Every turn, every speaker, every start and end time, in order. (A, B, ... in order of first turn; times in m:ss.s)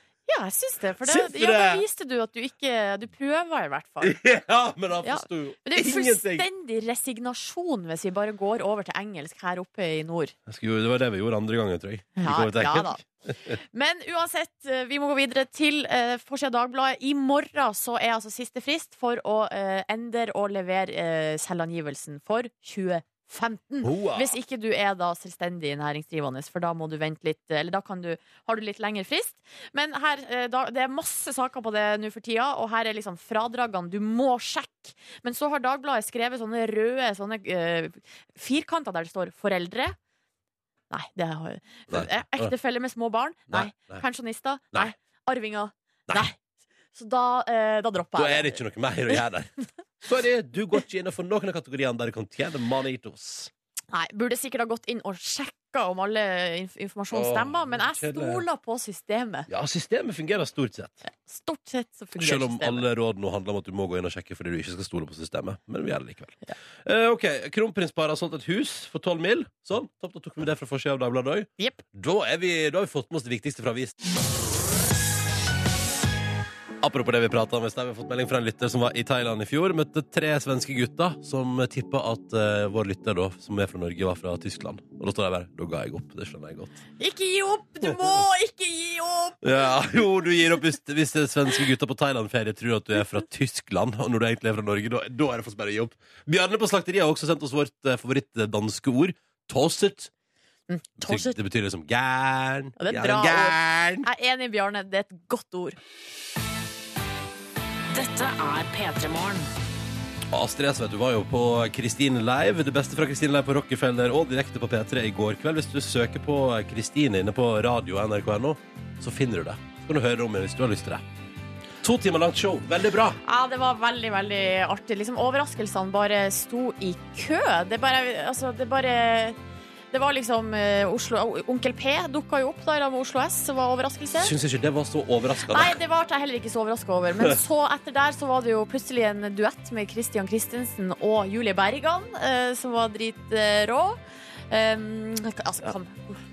0:00.3-0:04.2 A
0:01.0-0:01.8 B
0:04.0-0:06.5 B
0:05.0-0:10.4 A
0:10.5-0:13.6 B
0:12.2-0:13.0 A
0:13.7-0:40.0 A
0:23.8-0:24.3 B
0:40.9-0:46.4 A
0:41.9-0:42.5 B
0:43.5-0:44.0 B
0:46.9-0:48.6 A
0:48.2-0:53.5 B
0:53.9-0:59.5 A
0:57.1-0:58.4 B
0:59.5-1:01.0 B
1:01.1-1:02.9 A
1:02.2-1:14.0 B
1:16.8-1:26.8 B
1:27.0-1:29.4 A
1:29.4-1:40.1 B
1:40.7-1:41.4 A
1:41.0-1:44.1 B
1:42.8-1:45.8 A
1:50.3-2:01.0 B
2:01.8-2:03.2 B
2:03.2-2:09.4 A
2:09.9-2:14.3 A
2:14.2-2:15.8 B
2:15.5-2:24.0 A
2:24.5-2:26.2 A